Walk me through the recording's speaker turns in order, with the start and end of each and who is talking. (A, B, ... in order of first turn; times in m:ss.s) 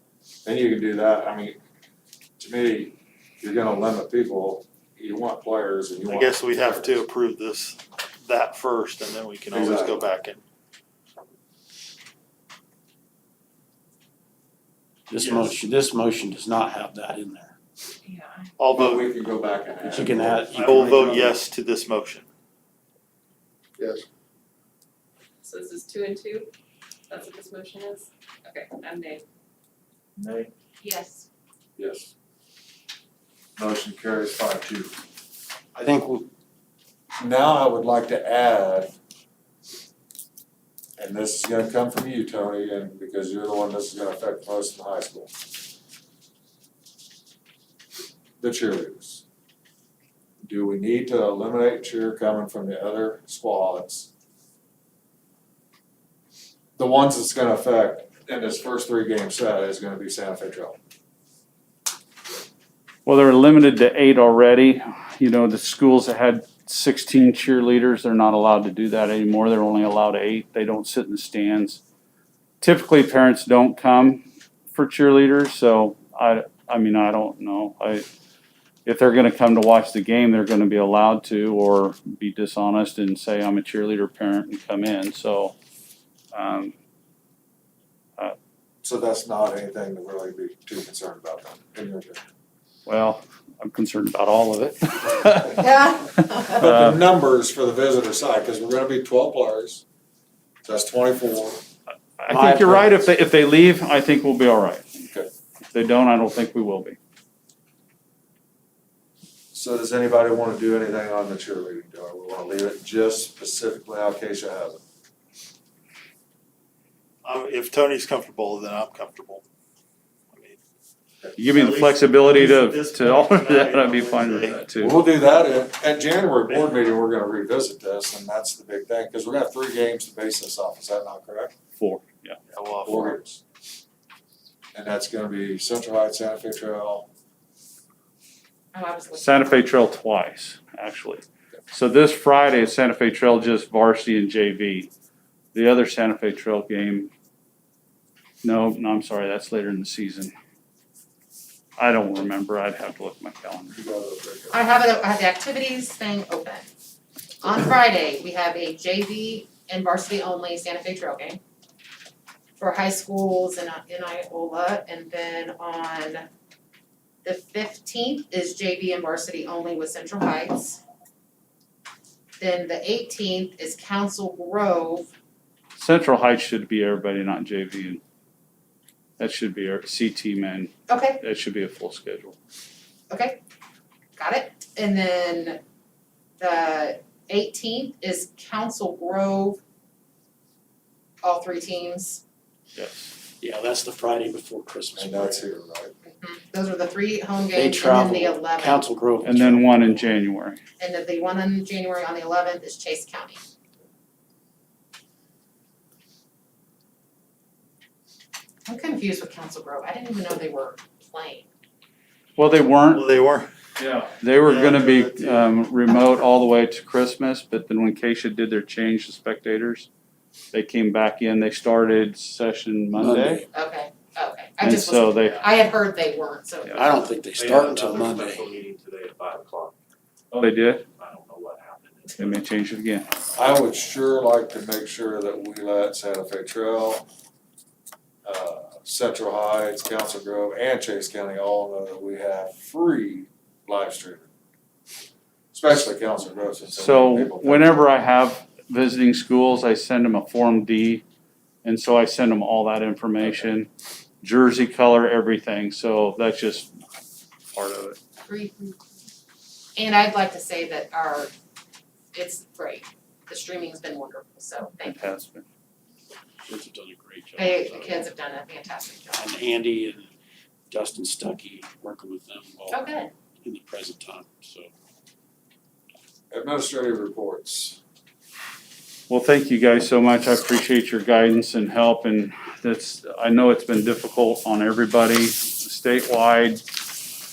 0:00.4-0:01.6 A
0:02.4-0:06.9 A
0:06.1-0:10.4 B
0:09.5-0:10.0 A
0:15.1-0:17.5 C
0:15.2-0:15.6 B
0:18.0-0:18.5 D
0:18.6-0:19.1 B
0:18.7-0:21.2 A
0:19.8-0:21.3 C
0:20.5-0:22.3 B
0:25.4-0:26.5 D
0:27.1-0:29.2 D
0:30.2-0:30.5 A
0:30.8-0:31.2 E
0:31.8-0:32.1 A
0:33.6-0:34.9 A
0:35.8-0:36.3 C
0:37.2-0:38.9 A
0:41.0-0:45.4 A
0:48.4-0:49.2 A
0:50.4-0:54.1 A
0:56.8-1:00.8 A
1:03.0-1:11.8 F
1:12.6-1:18.0 F
1:18.8-1:25.5 F
1:26.3-1:26.7 F
1:28.8-1:32.2 A
1:32.8-1:35.7 F
1:35.6-1:36.6 E
1:36.2-1:37.0 F
1:36.5-1:39.8 A
1:40.6-1:41.6 A
1:42.2-1:44.8 F
1:42.3-1:43.0 C
1:45.7-1:47.0 F
1:49.5-1:54.8 A
1:57.2-1:59.4 B
2:00.3-2:00.6 B
2:01.4-2:05.0 F
2:01.5-2:04.6 B
2:04.8-2:11.5 A
2:11.8-2:12.4 F
2:12.5-2:13.2 B
2:12.8-2:13.4 A
2:14.7-2:17.1 A
2:18.7-2:19.5 E
2:19.1-2:24.9 F
2:25.5-2:27.1 F
2:28.4-2:30.3 F
2:31.8-2:33.7 F
2:33.7-2:34.6 A
2:34.5-2:36.7 E
2:37.4-2:41.4 E
2:42.6-2:46.2 E
2:47.2-2:50.8 E
2:52.4-2:55.1 E
2:55.8-2:58.0 F
2:59.2-3:02.3 F
3:00.9-3:01.2 E
3:03.1-3:03.4 E
3:04.2-3:05.6 E
3:06.4-3:09.6 E
3:11.2-3:12.2 E
3:12.8-3:13.1 F
3:13.4-3:15.4 C
3:15.0-3:15.9 A
3:16.0-3:18.8 E
3:17.5-3:19.9 C
3:19.2-3:20.6 F
3:20.8-3:23.4 E
3:28.7-3:31.5 E
3:32.4-3:33.1 F
3:32.9-3:33.5 B
3:33.8-3:39.9 F
3:34.3-3:35.5 B
3:40.5-3:43.5 F
3:43.0-3:43.4 C
3:43.5-3:47.1 E
3:44.6-3:45.4 F
3:45.3-3:45.5 G
3:46.7-3:48.5 C
3:47.3-3:49.7 G
3:50.3-3:50.8 F
3:51.0-3:52.3 G
3:52.2-3:53.1 F
3:53.4-3:57.1 A
3:58.2-4:04.3 A
4:05.5-4:07.8 A
4:06.8-4:11.0 F
4:11.6-4:13.7 F
4:14.2-4:16.7 F
4:17.5-4:18.0 F
4:18.2-4:18.8 E
4:19.8-4:21.3 E
4:22.1-4:25.0 E
4:24.8-4:25.4 F
4:26.5-4:28.0 C
4:27.4-4:29.2 E
4:29.1-4:30.1 C
4:30.7-4:32.8 C
4:32.7-4:33.1 E
4:33.4-4:34.7 C
4:36.3-4:37.8 A
4:39.1-4:46.6 F